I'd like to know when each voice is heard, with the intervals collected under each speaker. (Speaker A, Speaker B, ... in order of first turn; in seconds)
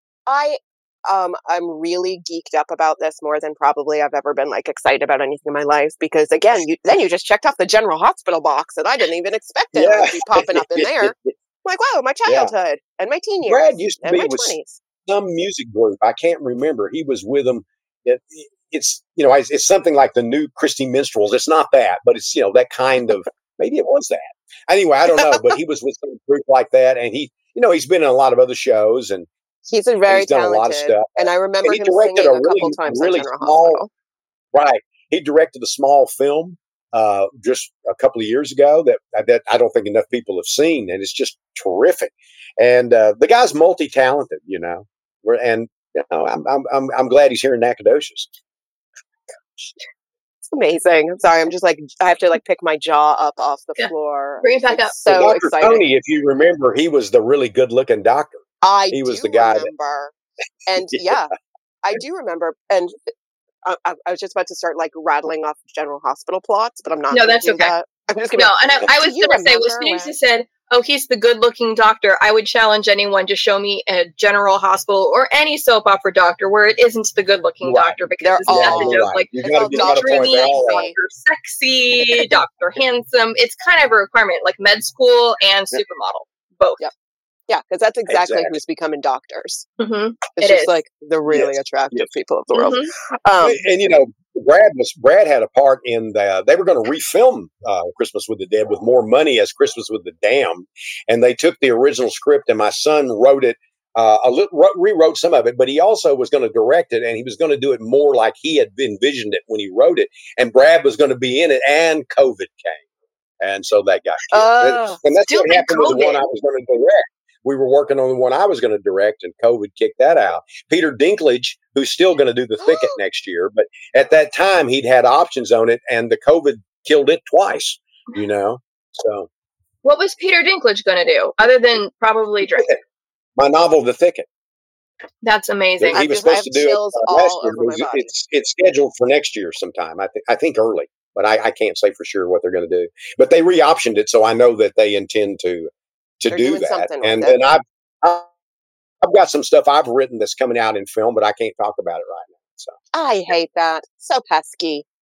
Speaker A: 0.3-14.8, 29.6-33.9, 50.5-55.8, 58.6-60.1, 60.7-63.1, 63.6-70.1, 78.2-80.9, 87.5-89.7, 90.3-93.6, 114.3-116.0, 135.9-138.1, 146.3-147.4, 152.9-154.8
Speaker B: 9.7-11.3, 12.2-12.5, 13.4-29.3, 30.1-33.8, 34.5-48.3, 55.1-59.7, 77.6-77.9, 78.5-80.8, 88.1-88.5, 91.3-92.1, 93.4-112.8, 113.4-129.3, 133.4-134.3, 135.8-145.7, 146.2-148.3, 149.0-152.8
Speaker C: 54.4-54.9, 67.1-67.7, 68.3-86.8, 89.8-90.8, 92.5-92.9, 115.3-116.2, 129.8-132.7, 135.2-136.0